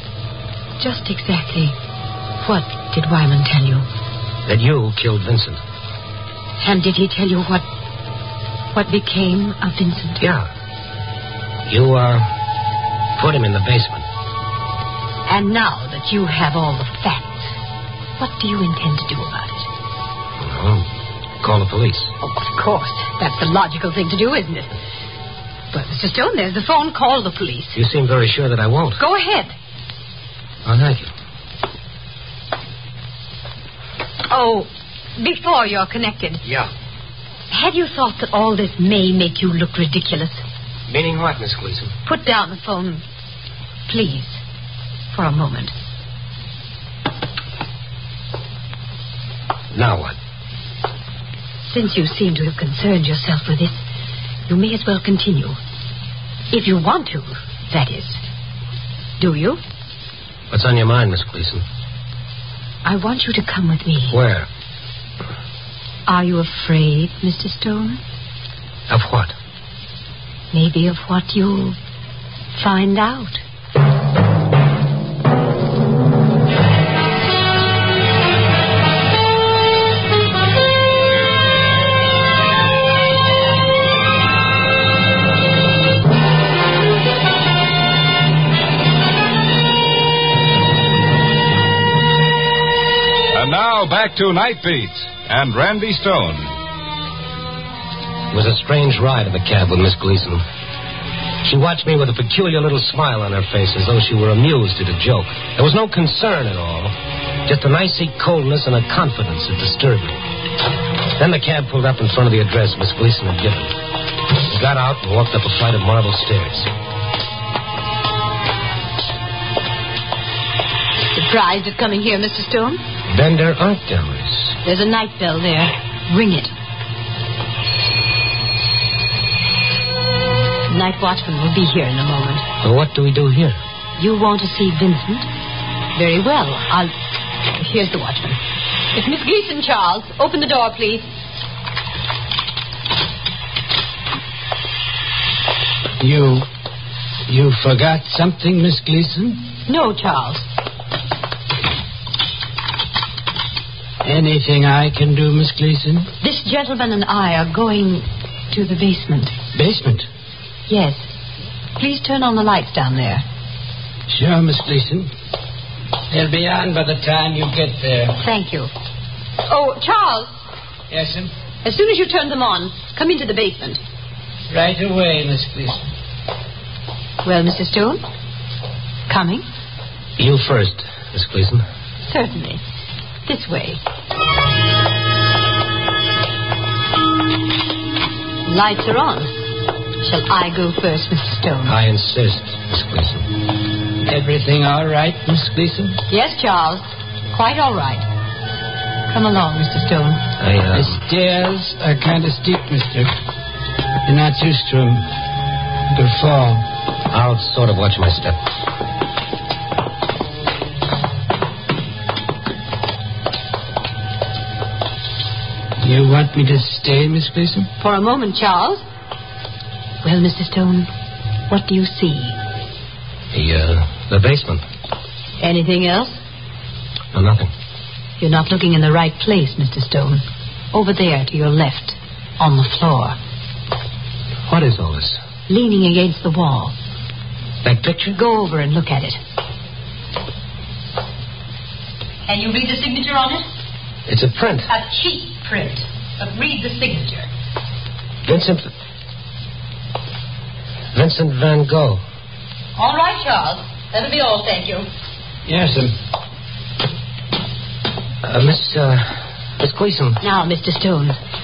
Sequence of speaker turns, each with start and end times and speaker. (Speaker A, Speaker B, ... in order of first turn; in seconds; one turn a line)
Speaker A: 0.8-1.8
Speaker A: 2.4-3.9
Speaker B: 4.5-5.6
Speaker A: 6.6-7.6
Speaker A: 8.7-10.3
Speaker B: 10.2-10.5
Speaker B: 11.7-12.3
Speaker B: 13.2-14.0
Speaker A: 15.3-17.5
Speaker A: 18.2-19.7
Speaker B: 20.4-20.9
Speaker B: 21.4-22.1
Speaker A: 22.2-24.7
Speaker A: 25.7-27.8
Speaker B: 27.7-29.0
Speaker A: 29.0-29.5
Speaker B: 30.6-31.1
Speaker A: 34.3-36.4
Speaker B: 36.4-36.7
Speaker A: 37.5-40.4
Speaker B: 40.9-41.9
Speaker A: 42.0-43.0
Speaker A: 43.9-44.4
Speaker A: 45.1-45.7
Speaker B: 49.7-50.1
Speaker A: 51.6-53.8
Speaker A: 54.5-55.6
Speaker A: 56.5-58.2
Speaker A: 59.2-59.6
Speaker B: 60.5-61.6
Speaker A: 62.8-64.2
Speaker B: 64.1-64.5
Speaker A: 66.1-68.0
Speaker B: 68.9-69.3
Speaker A: 70.5-71.8
Speaker A: 72.5-73.4
Speaker C: 93.3-96.5
Speaker B: 98.3-100.4
Speaker B: 101.4-106.9
Speaker B: 107.5-110.2
Speaker B: 111.2-113.7
Speaker B: 114.3-116.7
Speaker A: 121.1-122.8
Speaker B: 123.1-124.5
Speaker A: 124.6-126.5
Speaker A: 130.7-132.4
Speaker B: 132.6-133.6
Speaker A: 134.0-135.3
Speaker A: 135.9-136.9
Speaker A: 137.5-138.4
Speaker A: 138.9-141.0
Speaker D: 146.0-146.4
Speaker D: 147.3-149.4
Speaker A: 149.7-150.4
Speaker D: 154.0-156.1
Speaker A: 156.2-159.3
Speaker D: 159.6-160.1
Speaker A: 160.7-161.1
Speaker A: 161.8-163.2
Speaker D: 164.1-165.1
Speaker D: 166.1-168.1
Speaker A: 168.2-168.7
Speaker A: 169.4-170.3
Speaker D: 170.9-171.3
Speaker A: 171.6-173.8
Speaker D: 174.5-175.8
Speaker A: 177.2-178.0
Speaker A: 179.1-179.4
Speaker B: 180.2-181.6
Speaker A: 182.0-182.6
Speaker A: 183.2-183.8
Speaker A: 188.4-189.5
Speaker A: 190.0-191.8
Speaker B: 191.6-193.3
Speaker D: 194.1-196.0
Speaker A: 196.1-198.1
Speaker A: 199.1-200.2
Speaker B: 200.4-201.0
Speaker D: 200.8-203.1
Speaker D: 204.1-205.0
Speaker D: 205.9-206.6
Speaker B: 207.1-208.4
Speaker D: 215.8-217.7
Speaker A: 217.8-218.8
Speaker A: 220.0-220.9
Speaker A: 221.5-222.4
Speaker B: 223.3-224.6
Speaker A: 225.4-226.2
Speaker B: 227.1-227.5
Speaker A: 228.2-233.2
Speaker B: 234.5-235.2
Speaker A: 235.5-236.7
Speaker B: 237.6-238.2
Speaker A: 238.1-239.2
Speaker A: 242.2-243.5
Speaker B: 244.1-244.7
Speaker A: 244.7-247.3
Speaker B: 248.2-248.7
Speaker B: 250.9-252.0
Speaker A: 252.8-254.9
Speaker D: 255.5-255.9
Speaker B: 258.2-259.1
Speaker B: 259.6-260.2
Speaker A: 260.2-261.2